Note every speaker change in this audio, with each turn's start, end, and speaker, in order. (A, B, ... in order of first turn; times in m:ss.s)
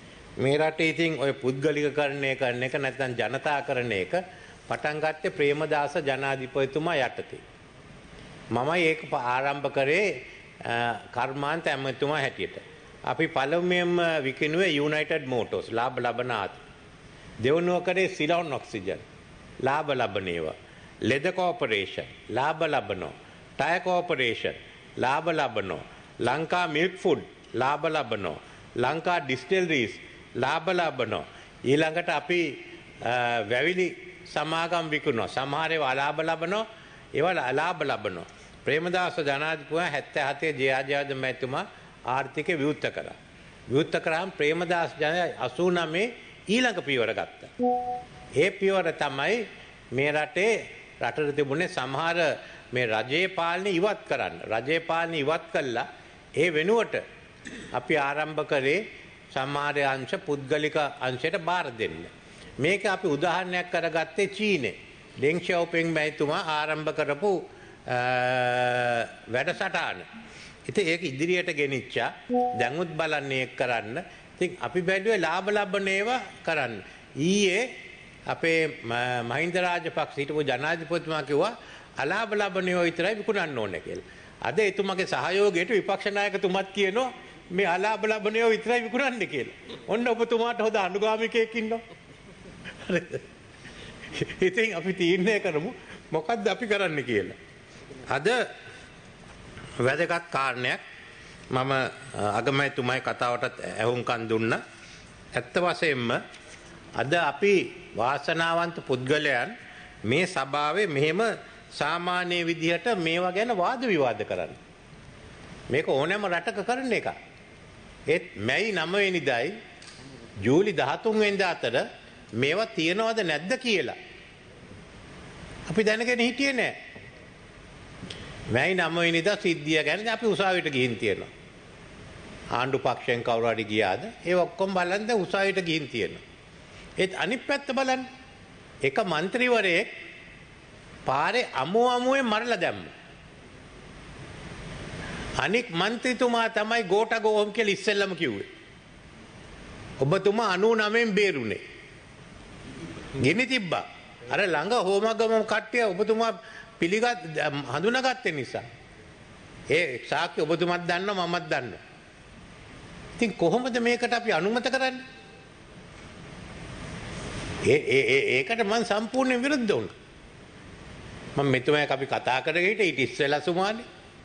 0:00.4-0:07.4 A
0:08.5-0:16.6 A
0:17.4-0:19.0 A
0:19.6-0:43.2 A
0:43.7-0:47.5 A
0:48.4-0:57.0 A
0:57.7-1:10.1 A
1:10.7-1:17.7 A
1:18.3-1:31.8 A
1:32.8-1:33.2 A
1:34.1-1:37.4 A
1:38.0-1:38.5 A
1:39.8-1:40.8 A
1:41.5-1:44.6 A
1:45.3-1:46.2 A
1:47.0-1:54.6 A
1:55.7-1:57.2 A
1:58.1-1:59.6 A
2:00.4-2:04.0 A
2:05.7-2:06.8 A
2:08.5-2:11.3 A
2:12.6-2:16.2 A
2:17.0-2:18.1 A
2:18.8-2:19.9 A
2:21.1-2:22.9 A
2:25.4-2:28.5 A
2:30.0-2:31.6 A
2:33.2-2:38.6 A
2:39.7-2:41.8 A
2:43.2-2:45.1 A
2:47.6-2:49.9 A
2:51.4-2:53.9 A